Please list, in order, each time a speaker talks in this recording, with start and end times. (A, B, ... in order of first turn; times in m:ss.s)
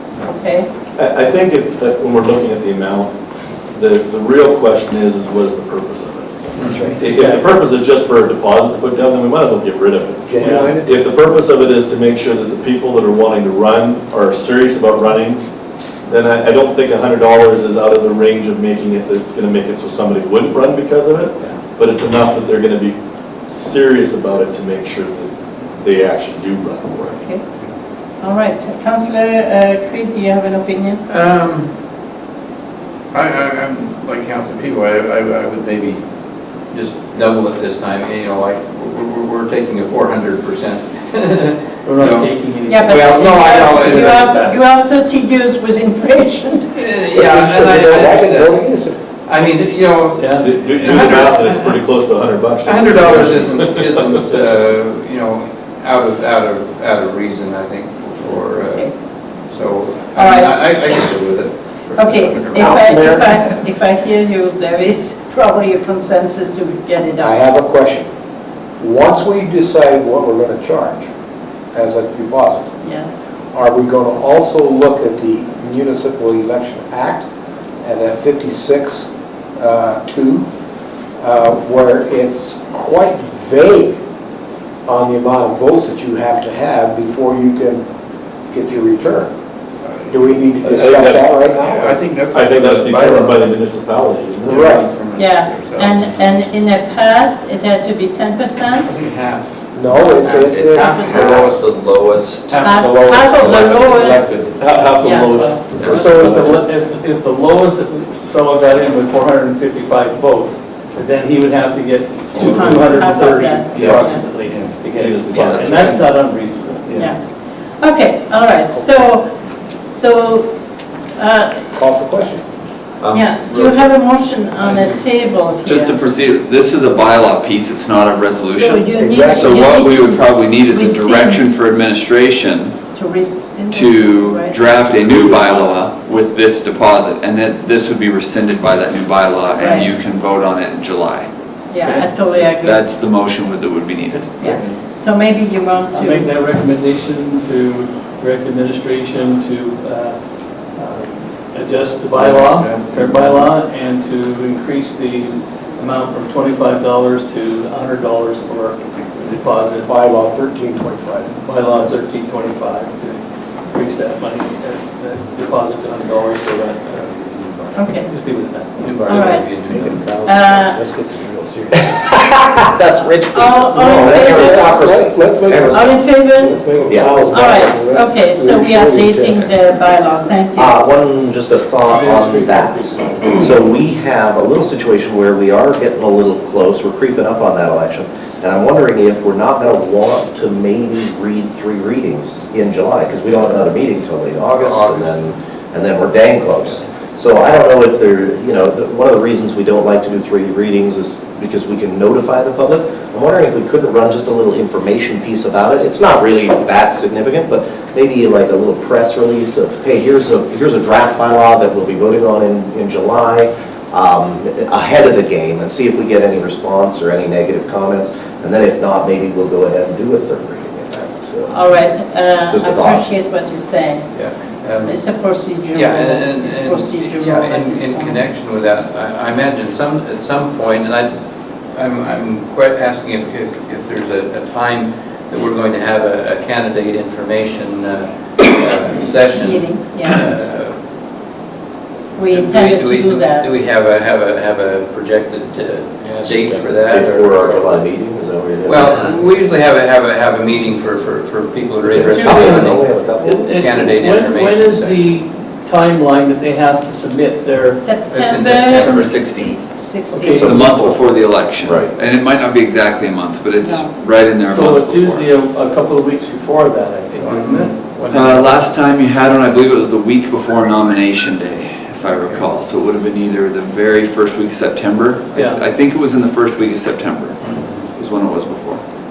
0:00.2-0:00.7 A
0:01.0-0:03.1 B
0:03.7-0:15.4 B
0:06.6-0:07.0 C
0:06.7-0:07.0 D
0:07.1-0:07.5 E
0:10.3-0:11.0 D
0:10.4-0:10.7 E
0:16.1-0:27.2 B
0:27.2-0:27.4 A
0:28.2-0:31.0 A
0:31.1-0:31.7 C
0:33.1-0:36.0 C
0:36.7-0:42.3 C
0:41.8-0:43.1 E
0:42.7-0:46.7 A
0:42.8-0:44.4 C
0:43.7-0:44.6 E
0:46.8-0:48.7 C
0:47.1-0:49.0 D
0:49.3-0:51.8 C
0:50.2-0:50.5 E
0:50.4-0:54.4 B
0:52.6-1:03.4 C
1:00.2-1:01.0 A
1:02.0-1:07.4 A
1:02.5-1:03.3 D
1:07.2-1:08.1 D
1:08.8-1:11.1 D
1:11.7-1:12.7 D
1:12.8-1:13.2 A
1:13.5-1:17.3 D
1:17.8-1:20.5 D
1:21.2-1:24.0 D
1:24.9-1:27.8 D
1:28.5-1:29.3 D
1:29.8-1:30.1 C
1:30.1-1:32.0 D
1:30.6-1:31.4 B
1:31.4-1:33.4 C
1:32.3-1:34.8 B
1:34.5-1:36.1 C
1:34.5-1:34.8 D
1:35.2-1:38.9 A
1:38.8-1:41.6 C
1:39.7-1:41.5 D
1:39.9-1:44.2 F
1:40.7-1:41.4 A
1:42.5-1:44.8 C
1:42.6-1:44.3 A
1:44.6-1:46.4 B
1:45.0-1:45.6 A
1:45.8-1:46.2 F
1:45.9-1:46.3 C
1:45.9-1:57.1 E
1:52.4-1:53.0 C
1:52.4-1:54.2 A
1:53.7-1:54.8 C
1:55.0-1:56.0 B
1:55.3-1:56.0 C
1:56.9-1:57.2 A
1:57.8-2:00.6 A
1:58.7-1:59.0 D
2:01.2-2:01.7 A
2:01.7-2:02.4 D
2:03.0-2:03.8 F
2:03.1-2:06.0 A
2:04.6-2:05.0 C
2:05.6-2:12.8 F
2:08.3-2:11.6 A
2:08.9-2:09.7 D
2:12.9-2:15.7 A
2:13.7-2:21.3 F
2:19.6-2:19.9 A
2:21.7-2:22.8 A
2:21.8-2:22.5 E
2:22.6-2:24.3 F
2:24.1-2:24.7 E
2:24.4-2:26.3 A
2:24.5-2:24.8 C
2:25.9-2:40.0 E
2:32.2-2:33.4 C
2:39.9-2:41.9 D
2:41.4-2:49.3 E
2:47.8-2:48.1 A
2:48.8-2:50.0 C
2:49.1-2:49.7 A
2:49.7-2:52.2 D
2:50.2-2:50.8 A
2:51.9-2:56.0 G
2:53.3-2:54.7 A
2:53.7-2:59.6 D
2:55.7-3:00.8 A
2:56.9-2:57.4 G
3:00.6-3:41.7 G
3:01.9-3:03.5 E
3:13.5-3:15.4 C
3:41.5-3:44.1 A
3:42.5-3:43.1 G
3:44.1-3:45.0 C
3:44.8-3:48.2 A
3:45.7-4:00.8 C
3:59.3-4:00.2 A
4:02.2-4:03.6 A
4:02.3-4:07.9 C
4:06.0-4:06.5 D
4:06.8-4:09.2 G
4:08.6-4:12.9 C
4:11.8-4:13.5 G
4:12.0-4:17.9 E
4:13.6-4:15.2 C
4:17.7-4:20.5 A
4:18.1-4:19.1 C
4:18.6-4:25.3 F
4:20.0-4:21.0 E
4:20.3-4:21.0 G
4:21.6-4:21.9 G
4:23.6-4:24.0 A
4:24.4-4:28.4 E
4:27.1-4:28.7 C
4:28.1-4:37.4 F
4:32.1-4:32.4 C
4:35.3-4:35.6 E
4:37.4-4:37.9 C
4:37.9-4:38.8 F